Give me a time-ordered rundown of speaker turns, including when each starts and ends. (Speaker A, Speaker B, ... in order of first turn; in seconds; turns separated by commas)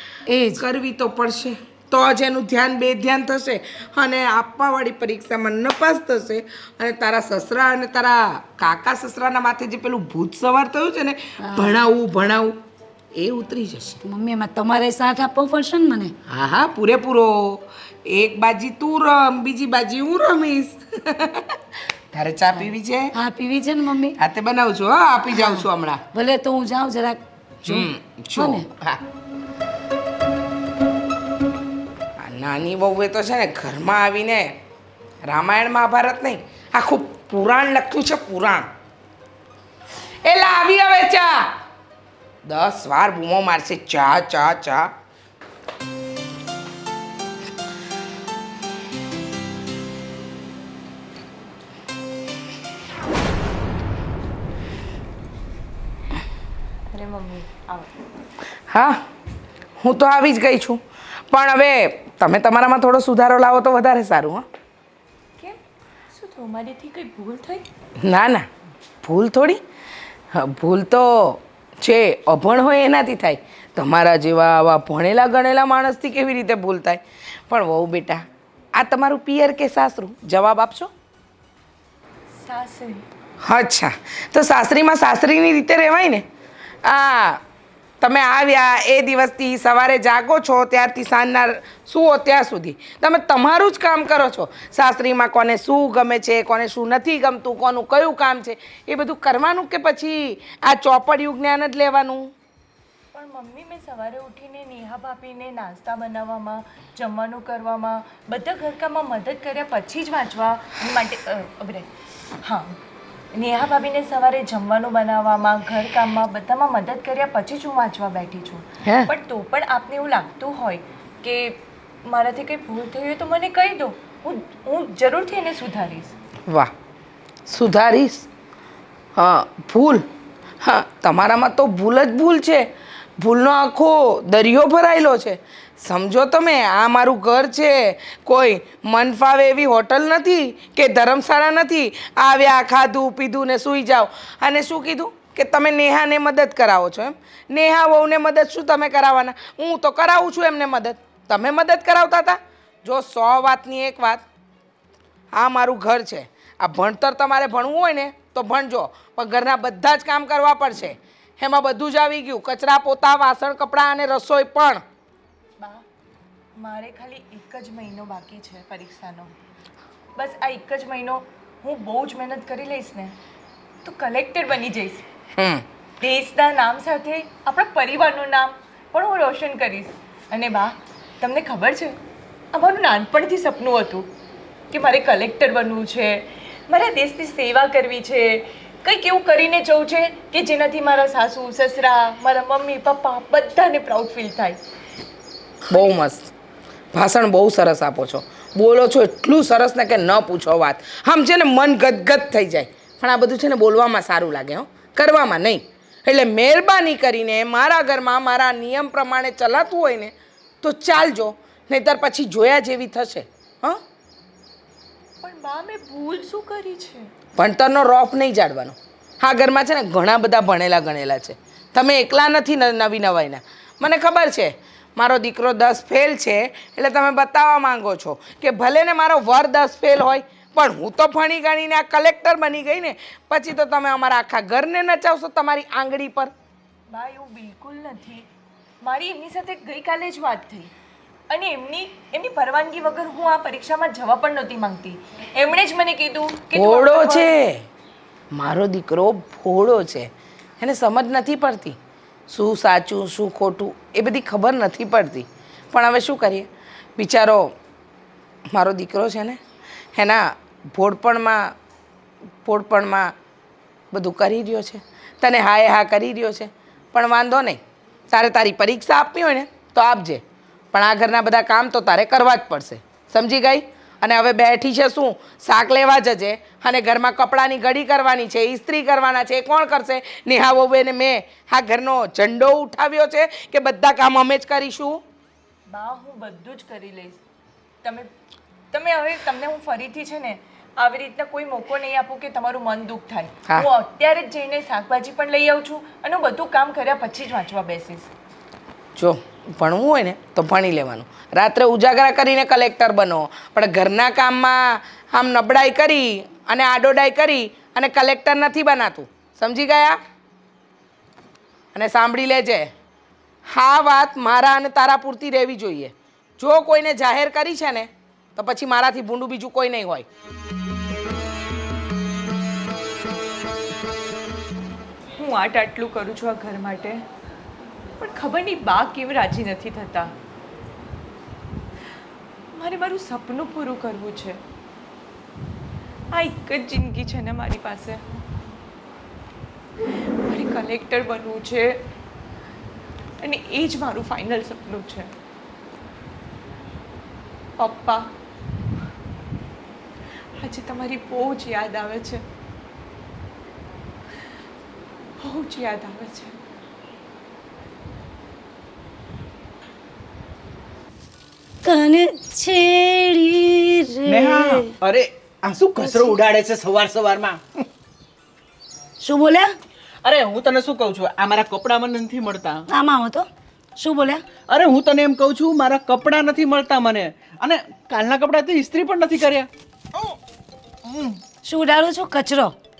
Speaker A: 0.3-0.6, Speaker B: 0.6-12.6, Speaker A: 11.4-11.7, Speaker B: 13.1-14.0, Speaker A: 14.0-16.1, Speaker B: 16.3-21.6, Speaker B: 22.1-23.1, Speaker A: 23.1-24.1, Speaker B: 24.2-26.0, Speaker A: 25.3-28.6, Speaker B: 27.6-29.0, Speaker B: 32.2-34.6, Speaker B: 35.2-38.7, Speaker B: 40.2-41.6, Speaker B: 42.5-44.9, Speaker C: 56.9-57.9, Speaker B: 58.7-59.0, Speaker B: 59.8-64.5, Speaker C: 66.1-67.7, Speaker B: 68.0-68.5, Speaker B: 69.0-69.6, Speaker B: 70.3-80.9, Speaker C: 82.4-83.0, Speaker B: 83.4-86.2, Speaker B: 86.8-87.4, Speaker B: 88.0-102.3, Speaker C: 103.1-111.9, Speaker C: 112.4-112.7, Speaker C: 113.3-126.1, Speaker B: 118.8-119.1, Speaker B: 127.5-128.2, Speaker B: 129.2-130.1, Speaker B: 130.6-154.2, Speaker B: 155.3-164.8, Speaker C: 165.6-165.8, Speaker C: 166.6-169.3, Speaker C: 170.2-173.2, Speaker C: 173.8-175.0, Speaker B: 175.4-175.6, Speaker C: 176.0-182.0, Speaker C: 182.5-184.1, Speaker C: 184.7-194.6, Speaker B: 195.7-196.3, Speaker B: 196.9-213.8, Speaker C: 215.2-217.1, Speaker B: 217.3-236.3, Speaker C: 236.9-238.3, Speaker C: 238.8-240.7, Speaker C: 241.3-247.3, Speaker B: 246.5-247.6, Speaker B: 248.3-251.8, Speaker B: 252.3-257.5, Speaker B: 258.5-259.4, Speaker B: 259.9-261.5, Speaker B: 262.4-263.1, Speaker B: 263.9-285.0, Speaker C: 285.7-287.2, Speaker C: 287.8-288.1, Speaker C: 288.7-298.1, Speaker B: 298.9-310.0, Speaker B: 311.7-312.7, Speaker B: 313.5-320.1, Speaker C: 325.1-327.0, Speaker C: 328.0-330.1, Speaker C: 332.5-334.4, Speaker C: 336.1-338.0, Speaker C: 340.0-341.8, Speaker C: 343.2-345.1, Speaker C: 347.6-348.1, Speaker C: 350.4-352.2, Speaker C: 355.2-356.4, Speaker A: 361.6-364.7, Speaker D: 364.1-367.6, Speaker A: 365.8-366.1, Speaker A: 369.0-369.5, Speaker D: 370.0-372.6, Speaker A: 372.7-374.2, Speaker D: 374.5-380.1, Speaker D: 380.9-381.2, Speaker A: 381.4-382.5